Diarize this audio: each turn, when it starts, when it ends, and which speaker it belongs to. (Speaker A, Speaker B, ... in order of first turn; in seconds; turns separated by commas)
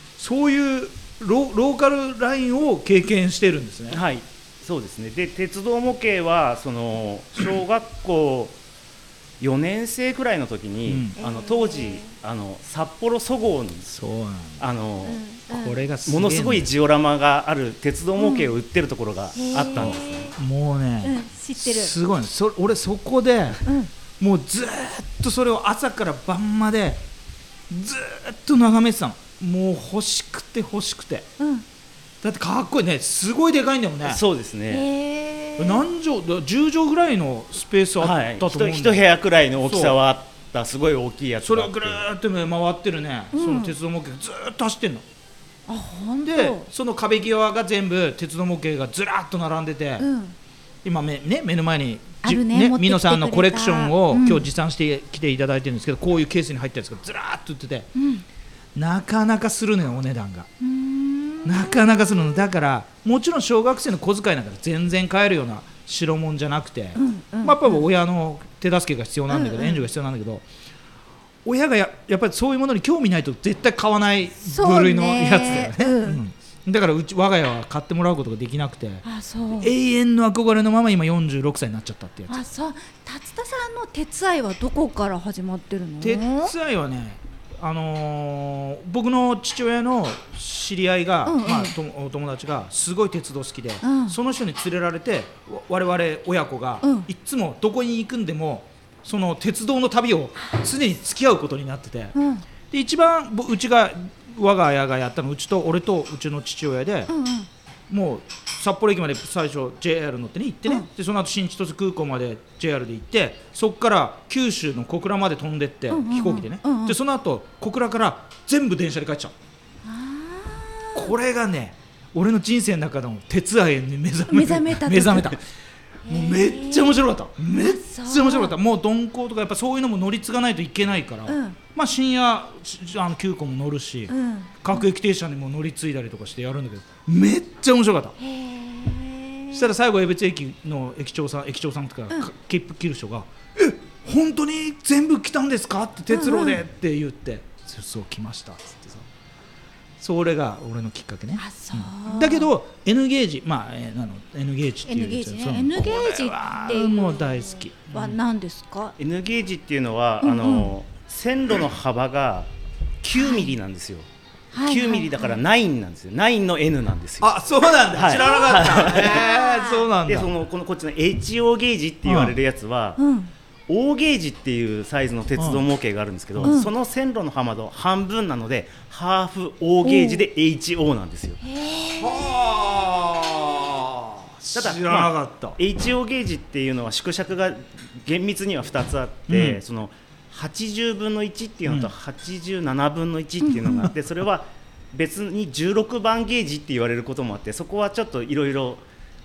Speaker A: 0.2-4.0, Speaker B: 3.9-8.6, Speaker B: 9.4-13.9, Speaker A: 10.8-11.1, Speaker C: 11.2-12.1, Speaker A: 13.9-14.6, Speaker B: 14.6-15.2, Speaker C: 15.0-15.8, Speaker A: 15.5-16.7, Speaker B: 16.1-20.3, Speaker C: 18.2-18.5, Speaker C: 19.4-20.3, Speaker A: 19.8-27.0, Speaker C: 21.0-21.9, Speaker C: 23.6-23.9, Speaker A: 27.7-31.3, Speaker C: 31.4-31.6, Speaker A: 32.2-34.2, Speaker B: 34.0-34.8, Speaker C: 34.7-35.9, Speaker A: 35.6-39.0, Speaker B: 38.0-42.1, Speaker A: 39.6-40.0, Speaker A: 41.4-45.0, Speaker C: 43.3-43.7, Speaker C: 45.7-46.6, Speaker A: 46.2-50.1, Speaker C: 50.0-50.3, Speaker A: 50.8-57.9, Speaker C: 52.2-54.5, Speaker C: 57.9-58.2, Speaker A: 58.7-60.5, Speaker C: 60.6-62.4, Speaker A: 61.4-70.4, Speaker C: 67.0-67.8, Speaker C: 69.3-69.8, Speaker A: 71.4-82.4, Speaker C: 74.4-76.2, Speaker C: 79.0-79.7, Speaker C: 82.3-86.5, Speaker A: 86.0-102.1, Speaker C: 91.2-91.7, Speaker C: 93.8-94.2, Speaker C: 102.1-102.4, Speaker A: 102.7-107.1, Speaker C: 107.1-107.5, Speaker A: 107.9-119.3, Speaker C: 115.9-117.0, Speaker C: 119.8-121.1, Speaker A: 120.9-125.4, Speaker C: 124.3-125.4, Speaker C: 126.0-127.0, Speaker A: 126.1-138.2, Speaker C: 127.6-128.5, Speaker C: 131.3-131.6, Speaker C: 134.1-134.8, Speaker C: 138.2-139.7, Speaker A: 139.5-149.1, Speaker C: 146.1-146.6, Speaker A: 150.0-158.2, Speaker C: 151.4-152.5, Speaker C: 154.8-158.9, Speaker B: 159.0-162.5, Speaker C: 160.2-160.7, Speaker B: 163.0-164.1, Speaker C: 163.2-163.5, Speaker C: 164.5-165.4, Speaker B: 164.6-167.4, Speaker A: 167.2-170.3, Speaker B: 167.9-169.3, Speaker C: 168.2-169.9, Speaker B: 170.0-173.0, Speaker A: 172.0-172.3, Speaker C: 173.0-173.3, Speaker B: 173.7-181.4, Speaker A: 175.4-175.6, Speaker A: 176.3-176.6, Speaker C: 176.4-176.7, Speaker C: 179.8-180.2, Speaker C: 181.4-182.3, Speaker A: 181.8-185.6, Speaker B: 184.5-198.8, Speaker A: 189.3-189.6, Speaker A: 191.7-191.9, Speaker C: 193.4-193.9